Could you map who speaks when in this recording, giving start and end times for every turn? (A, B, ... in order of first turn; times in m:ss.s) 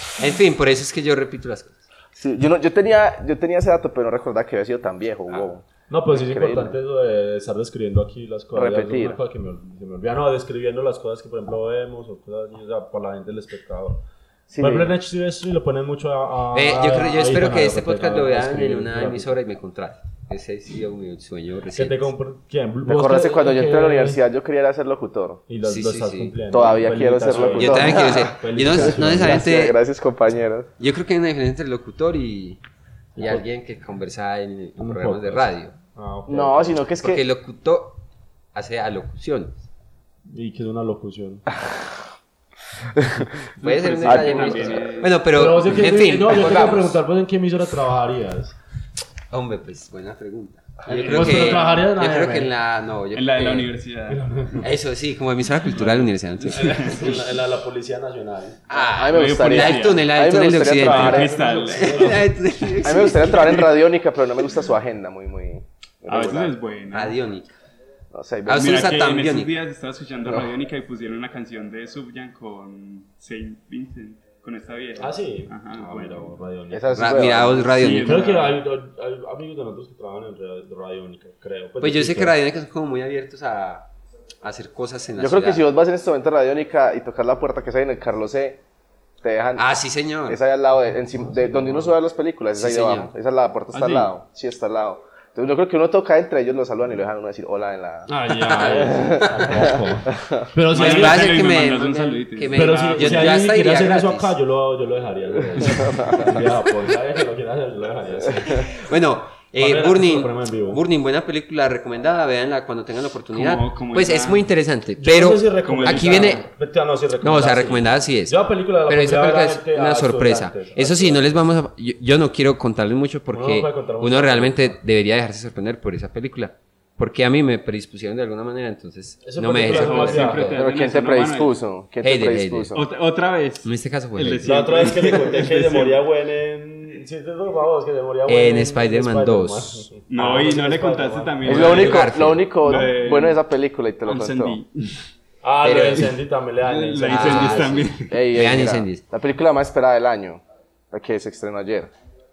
0:00.2-0:01.9 A
0:02.2-0:06.8 B
0:05.9-0:14.0 C
0:08.5-0:09.2 B
0:14.5-0:14.9 B
0:14.6-0:19.4 C
0:16.5-0:22.1 A
0:21.8-0:24.2 C
0:22.8-0:25.4 B
0:25.5-0:29.4 C
0:25.6-0:26.4 A
0:26.5-0:30.7 B
0:27.6-0:29.8 A
0:30.8-0:32.6 A
0:33.2-0:33.4 C
0:33.2-0:35.7 A
0:34.8-0:36.8 C
0:36.3-0:37.2 B
0:37.0-0:38.0 A
0:38.5-0:39.7 A
0:40.3-0:41.4 C
0:42.9-0:43.3 B
0:43.6-0:45.1 D
0:43.6-0:47.0 A
0:44.0-0:44.9 B
0:45.3-0:48.6 C
0:49.3-0:53.7 A
0:50.9-0:52.5 C
0:51.0-0:51.7 D
0:53.1-0:54.2 D
0:54.1-0:54.7 C
0:54.6-0:57.2 A
0:55.7-0:57.2 D
0:56.4-0:58.6 C
0:58.7-1:03.6 A
0:58.8-1:01.2 B
0:59.1-1:00.1 D
1:00.8-1:02.3 C
1:00.8-1:02.3 D
1:02.8-1:06.6 B
1:03.2-1:03.7 D
1:06.1-1:07.2 D
1:06.9-1:07.5 A
1:08.1-1:09.0 B
1:08.5-1:09.5 A
1:08.5-1:16.4 D
1:15.0-1:22.4 C
1:16.7-1:17.9 B
1:16.9-1:18.3 A
1:17.7-1:18.6 D
1:21.8-1:23.9 A
1:24.4-1:25.6 A
1:25.2-1:28.6 B
1:29.2-1:29.6 B
1:29.6-1:30.4 A
1:30.3-1:40.5 B
1:31.1-1:31.9 C
1:32.6-1:33.1 A
1:33.7-1:34.1 D
1:38.1-1:41.3 C
1:38.5-1:39.6 A
1:40.7-1:43.4 D
1:40.7-1:44.3 A
1:42.5-1:48.7 C
1:45.6-1:46.4 B
1:48.5-1:56.5 A
1:49.6-1:50.8 C
1:53.3-1:54.4 D
1:55.0-2:01.3 C
1:55.6-1:56.4 D
1:57.2-2:10.6 A
2:03.3-2:04.8 C
2:09.2-2:10.5 C
2:09.6-2:11.5 D
2:10.5-2:12.8 B
2:12.0-2:12.7 A
2:12.7-2:16.0 D
2:13.6-2:14.7 A
2:14.4-2:21.9 C
2:18.3-2:19.9 A
2:20.1-2:23.4 D
2:21.4-2:24.6 B
2:21.5-2:22.5 A
2:24.0-2:25.0 D
2:25.4-2:27.9 C
2:25.6-2:26.1 A
2:26.6-2:28.2 D
2:27.0-2:29.0 A
2:28.1-2:31.9 B